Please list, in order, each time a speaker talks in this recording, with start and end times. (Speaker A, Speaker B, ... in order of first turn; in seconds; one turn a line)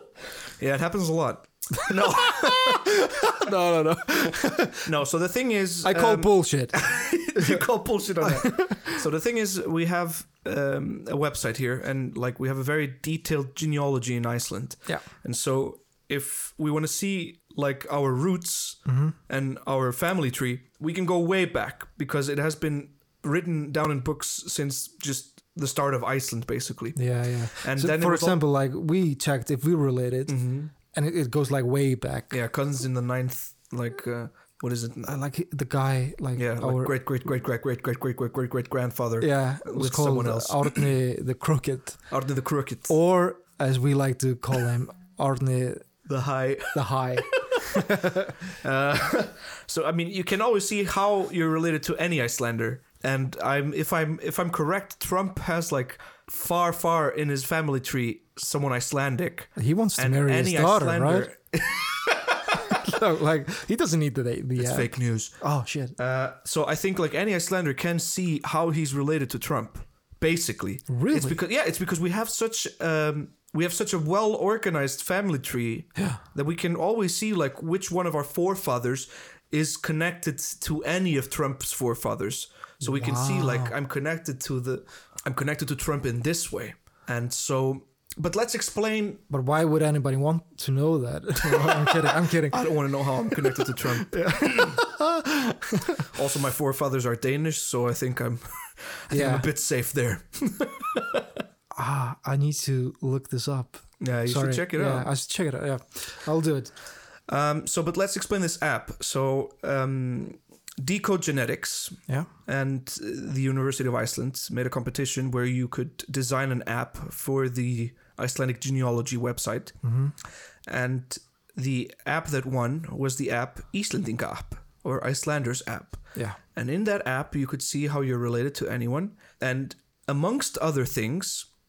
Speaker A: 0.6-2.9
Speaker B: 2.3-4.9
Speaker A: 4.8-28.4
Speaker B: 5.8-7.6
Speaker B: 8.2-9.0
Speaker B: 18.9-19.2
Speaker B: 26.9-32.4
Speaker A: 30.3-30.7
Speaker A: 32.3-35.2
Speaker B: 35.0-37.0
Speaker A: 36.3-40.9
Speaker B: 39.2-42.1
Speaker A: 42.1-42.9
Speaker B: 42.9-45.9
Speaker A: 46.0-47.6
Speaker B: 46.7-48.4
Speaker A: 48.6-62.5
Speaker B: 59.5-61.3
Speaker B: 62.7-66.0
Speaker A: 64.5-89.2
Speaker B: 70.9-71.4
Speaker B: 76.0-76.2
Speaker B: 82.8-83.7
Speaker B: 89.3-95.8
Speaker A: 91.4-94.8
Speaker A: 96.1-101.2
Speaker B: 99.1-99.5
Speaker B: 101.7-106.7
Speaker A: 104.0-105.1
Speaker A: 107.3-119.7
Speaker B: 119.8-120.1
Speaker A: 120.7-131.5